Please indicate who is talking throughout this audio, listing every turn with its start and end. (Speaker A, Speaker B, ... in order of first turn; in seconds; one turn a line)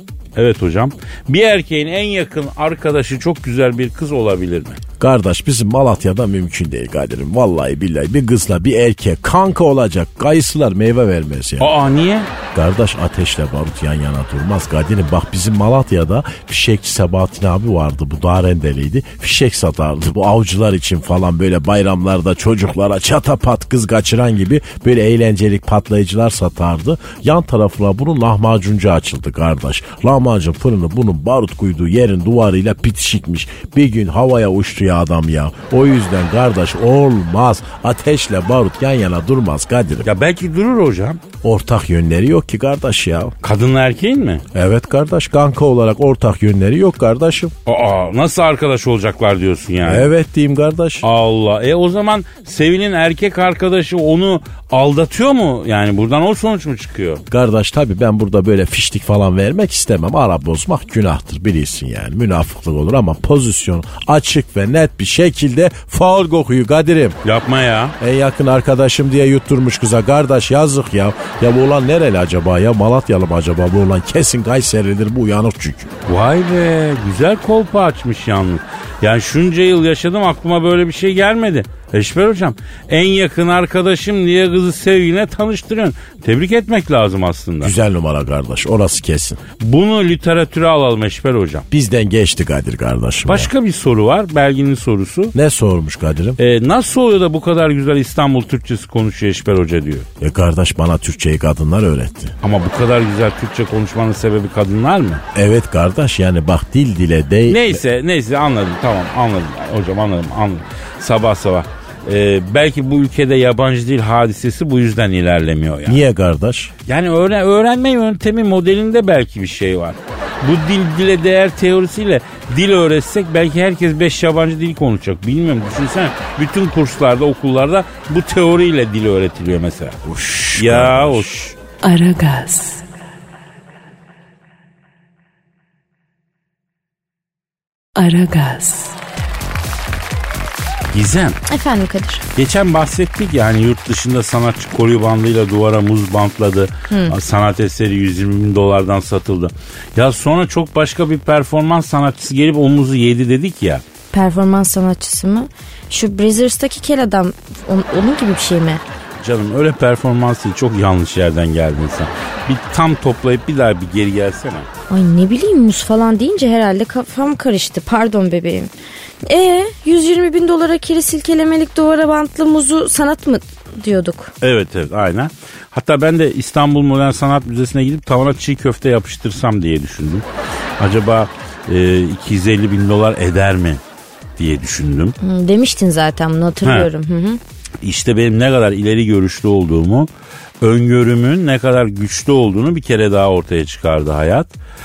Speaker A: 0.3-4.8
Speaker B: 5.0-11.7
Speaker A: 11.6-12.3
Speaker B: 12.5-40.1
Speaker A: 40.0-41.2
Speaker B: 41.4-43.3
Speaker A: 43.4-44.4
Speaker B: 44.5-47.5
Speaker A: 47.6-50.1
Speaker B: 49.8-51.0
Speaker A: 51.0-57.2
Speaker B: 57.3-67.2
Speaker A: 67.2-67.9
Speaker B: 68.0-75.9
Speaker A: 76.0-87.7
Speaker B: 87.6-89.4
Speaker A: 89.6-91.7
Speaker B: 91.7-93.5
Speaker A: 93.2-95.3
Speaker B: 95.3-96.4
Speaker A: 96.4-100.1
Speaker B: 100.2-102.3
Speaker A: 102.4-105.2
Speaker B: 105.3-107.8
Speaker A: 107.5-116.0
Speaker B: 115.8-116.7
Speaker A: 116.9-131.5
Speaker B: 130.0-131.3
Speaker C: 131.8-132.8
Speaker C: 137.9-138.9
Speaker A: 140.9-141.4
Speaker D: 141.5-142.2
Speaker A: 142.3-153.8
Speaker D: 146.9-147.2
Speaker D: 154.1-158.8
Speaker A: 159.2-164.7
Speaker D: 164.9-168.7
Speaker D: 169.2-174.3
Speaker A: 174.4-180.2
Speaker A: 180.8-183.8
Speaker A: 184.4-185.1
Speaker D: 185.2-187.4
Speaker A: 186.6-186.9
Speaker A: 187.8-190.1
Speaker A: 190.6-194.5